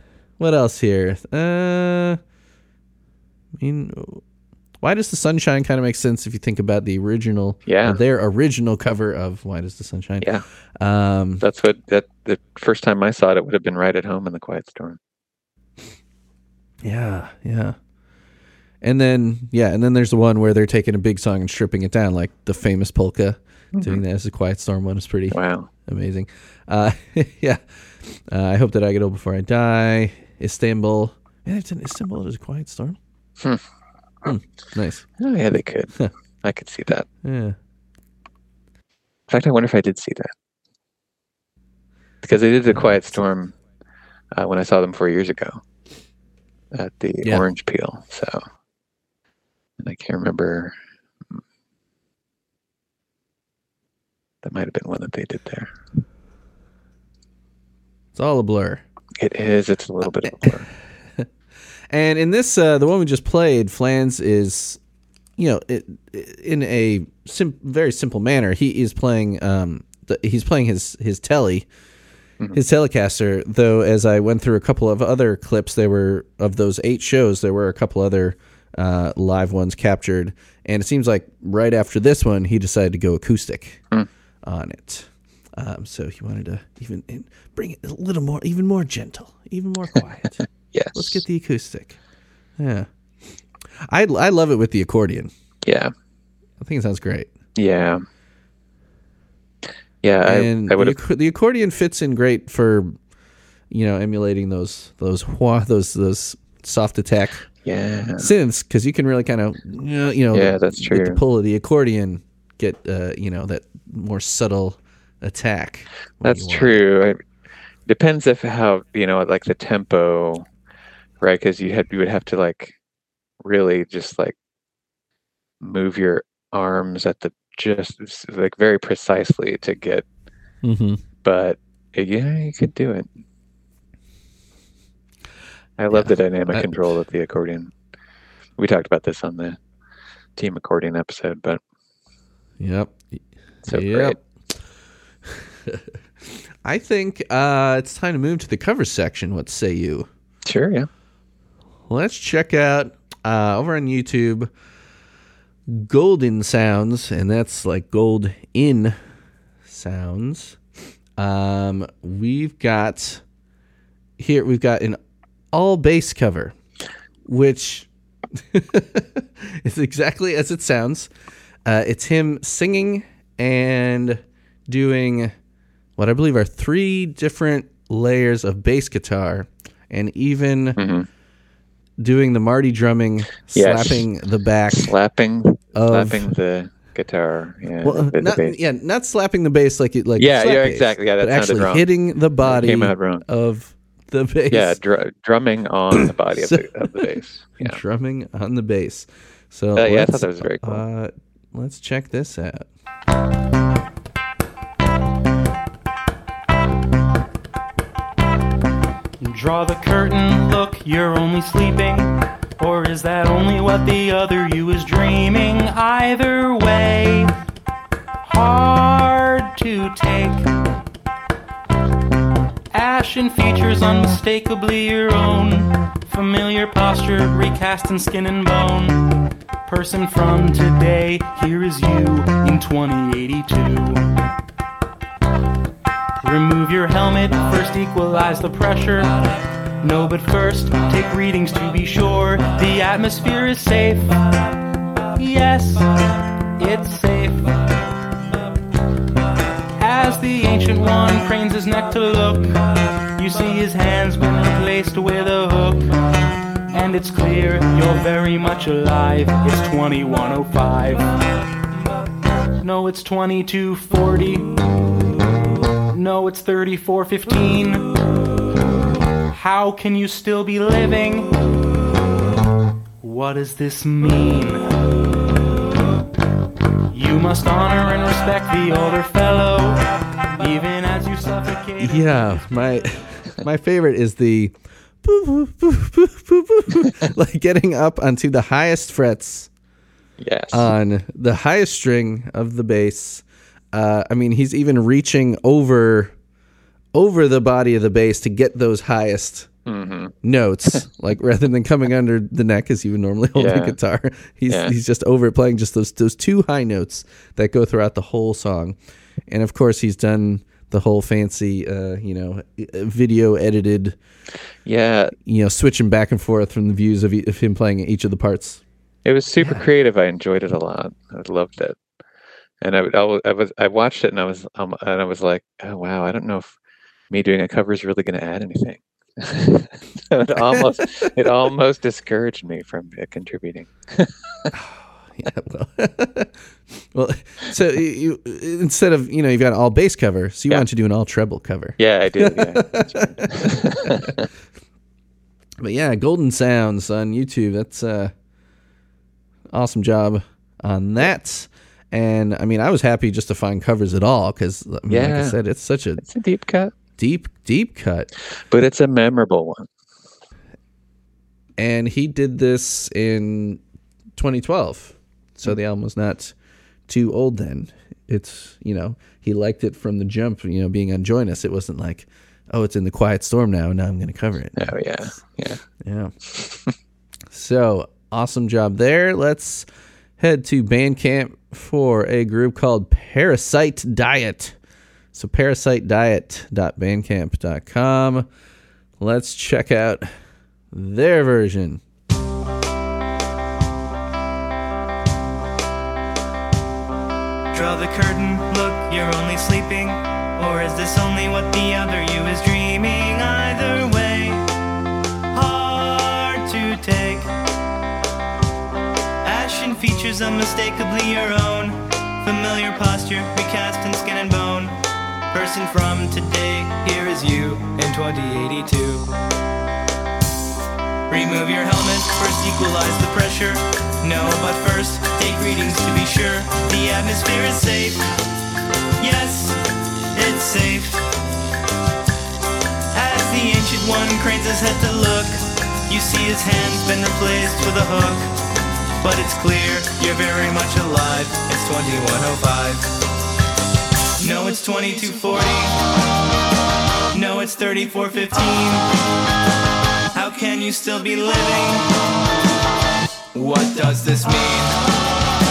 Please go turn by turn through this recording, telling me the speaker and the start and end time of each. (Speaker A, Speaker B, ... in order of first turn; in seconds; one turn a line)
Speaker A: 0.4-2.2
Speaker A: 3.5-4.2
Speaker A: 4.8-11.4
Speaker B: 7.7-8.0
Speaker B: 11.4-15.0
Speaker A: 16.8-17.8
Speaker A: 18.8-33.0
Speaker B: 23.7-24.0
Speaker B: 25.3-25.7
Speaker A: 34.2-35.1
Speaker B: 35.2-37.1
Speaker A: 37.2-37.6
Speaker B: 39.3-40.3
Speaker B: 42.2-43.5
Speaker A: 42.7-43.2
Speaker B: 44.3-45.6
Speaker B: 46.7-48.4
Speaker B: 49.8-50.7
Speaker B: 54.4-55.7
Speaker A: 58.1-58.8
Speaker B: 59.2-60.7
Speaker A: 61.9-64.8
Speaker A: 65.4-71.7
Speaker A: 72.5-83.8
Speaker A: 84.4-92.0
Speaker B: 90.7-91.2
Speaker A: 92.6-92.9
Speaker A: 93.9-95.3
Speaker B: 95.7-95.9
Speaker A: 96.6-97.3
Speaker B: 97.5-98.0
Speaker B: 100.0-101.0
Speaker A: 100.2-103.0
Speaker A: 103.7-107.4
Speaker B: 107.6-108.3
Speaker A: 108.2-116.8
Speaker B: 110.3-111.2
Speaker B: 116.2-117.2
Speaker B: 117.9-120.5
Speaker B: 121.2-122.8
Speaker B: 123.4-124.4
Speaker B: 125.6-130.1
Speaker A: 130.6-131.0
Speaker B: 131.2-133.1
Speaker B: 135.8-137.7
Speaker A: 135.9-136.7
Speaker B: 138.6-139.6
Speaker B: 140.4-141.6
Speaker A: 142.6-144.2
Speaker B: 143.7-144.2
Speaker A: 145.3-150.1
Speaker B: 150.4-150.9
Speaker A: 151.9-154.5
Speaker A: 155.7-159.0
Speaker A: 159.7-160.6
Speaker A: 161.2-163.2
Speaker A: 164.2-165.0
Speaker A: 165.5-166.5
Speaker A: 167.2-171.1
Speaker A: 171.6-175.3
Speaker A: 176.0-180.8
Speaker B: 180.8-181.1
Speaker A: 182.0-184.9
Speaker B: 183.5-184.1
Speaker B: 184.7-188.6
Speaker A: 185.7-186.3
Speaker A: 187.8-194.8
Speaker B: 190.2-191.9
Speaker B: 192.4-193.2
Speaker B: 194.5-197.8
Speaker A: 195.9-196.9
Speaker A: 197.6-202.7
Speaker B: 199.8-200.8
Speaker C: 209.2-217.3
Speaker C: 218.2-220.5
Speaker C: 222.7-234.1
Speaker C: 236.2-244.3
Speaker C: 245.1-247.7
Speaker C: 249.8-256.1
Speaker C: 256.7-261.2
Speaker C: 262.6-264.6
Speaker C: 265.9-268.0
Speaker C: 269.3-271.4
Speaker C: 273.0-274.8
Speaker C: 276.9-282.2
Speaker A: 281.8-289.5
Speaker B: 290.2-290.7
Speaker A: 290.5-296.1
Speaker A: 296.9-299.5
Speaker B: 299.6-300.1
Speaker A: 300.2-314.0
Speaker B: 303.3-303.8
Speaker B: 304.5-304.7
Speaker B: 314.6-315.1
Speaker A: 315.2-318.6
Speaker B: 319.1-321.8
Speaker B: 322.6-326.6
Speaker B: 327.1-334.5
Speaker A: 334.5-344.1
Speaker B: 341.8-344.2
Speaker A: 345.6-348.1
Speaker A: 349.5-356.0
Speaker B: 354.9-355.4
Speaker B: 356.0-356.7
Speaker A: 357.0-358.1
Speaker B: 358.5-359.7
Speaker A: 361.6-363.6
Speaker A: 364.1-366.3
Speaker A: 366.9-374.7
Speaker B: 374.6-375.6
Speaker A: 375.8-376.1
Speaker B: 376.4-376.7
Speaker A: 377.3-379.6
Speaker A: 380.2-384.6
Speaker A: 385.1-388.3
Speaker A: 389.0-390.1
Speaker A: 390.7-391.8
Speaker D: 397.5-404.4
Speaker D: 405.3-407.3
Speaker D: 409.2-414.7
Speaker D: 415.3-419.1
Speaker D: 421.1-428.1
Speaker D: 429.0-429.6
Speaker D: 430.1-431.0
Speaker D: 432.9-438.3
Speaker D: 439.0-442.9
Speaker D: 444.2-445.8
Speaker D: 447.1-448.9
Speaker D: 450.1-451.9
Speaker D: 453.3-454.8